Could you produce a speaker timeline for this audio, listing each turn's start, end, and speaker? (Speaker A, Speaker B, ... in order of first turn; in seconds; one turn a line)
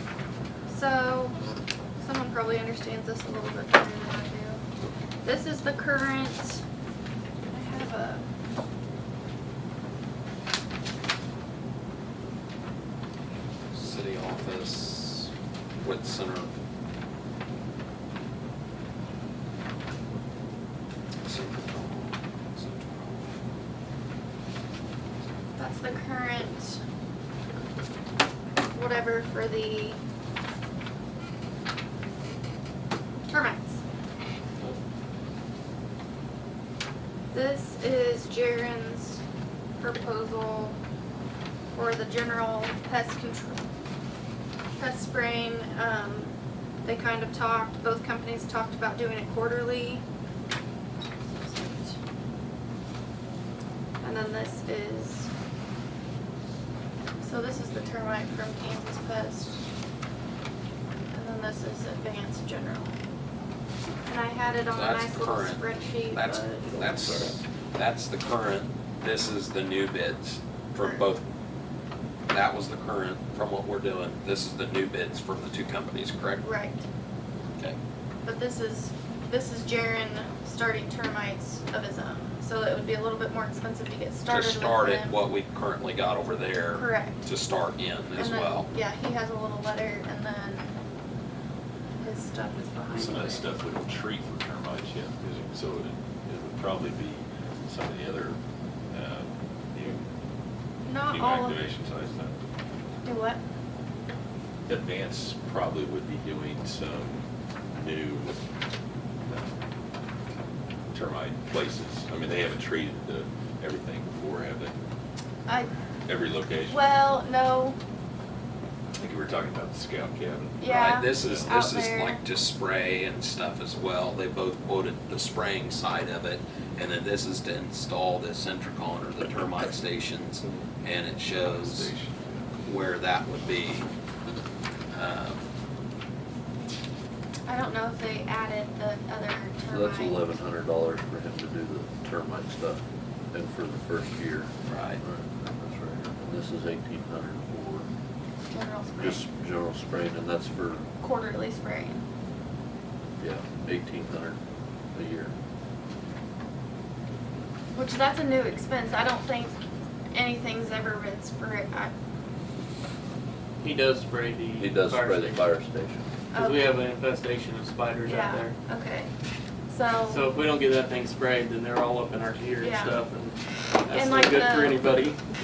Speaker A: 0.7-1.4
Speaker A: 2.0-4.6
Speaker A: 5.2-6.6
Speaker A: 7.5-8.2
Speaker B: 13.7-16.5
Speaker B: 21.2-23.4
Speaker A: 25.6-26.8
Speaker A: 28.7-30.0
Speaker A: 33.3-33.8
Speaker A: 37.3-39.2
Speaker A: 39.8-40.8
Speaker A: 41.7-43.6
Speaker A: 44.8-50.0
Speaker A: 51.2-52.0
Speaker A: 54.0-55.3
Speaker A: 57.2-59.6
Speaker A: 61.1-62.9
Speaker A: 64.0-66.7
Speaker B: 64.7-71.2
Speaker B: 72.3-76.4
Speaker A: 76.4-76.8
Speaker A: 78.2-85.2
Speaker B: 84.3-88.7
Speaker A: 86.7-87.2
Speaker A: 88.1-90.7
Speaker A: 92.0-93.5
Speaker C: 92.9-98.4
Speaker C: 98.9-100.0
Speaker A: 100.8-101.7
Speaker C: 101.1-102.3
Speaker A: 103.0-103.4
Speaker C: 104.7-107.2
Speaker C: 107.7-108.4
Speaker C: 110.9-114.7
Speaker C: 116.1-116.8
Speaker A: 116.7-117.8
Speaker C: 118.9-121.6
Speaker A: 120.6-122.2
Speaker B: 120.6-131.9
Speaker C: 131.4-132.4
Speaker B: 132.6-133.9
Speaker B: 134.9-135.4
Speaker A: 137.4-140.2
Speaker D: 139.7-142.8
Speaker D: 143.3-147.9
Speaker B: 144.6-145.0
Speaker A: 148.4-149.2
Speaker D: 149.0-150.8
Speaker A: 151.0-152.0
Speaker D: 153.2-154.4
Speaker D: 154.9-155.3
Speaker A: 157.7-159.6
Speaker A: 160.1-161.9
Speaker E: 163.6-165.4
Speaker D: 164.6-166.0
Speaker A: 166.3-166.7
Speaker E: 166.3-168.6
Speaker A: 168.0-169.1
Speaker A: 169.7-170.2
Speaker E: 170.1-175.2
Speaker A: 172.6-173.0
Speaker A: 173.9-174.8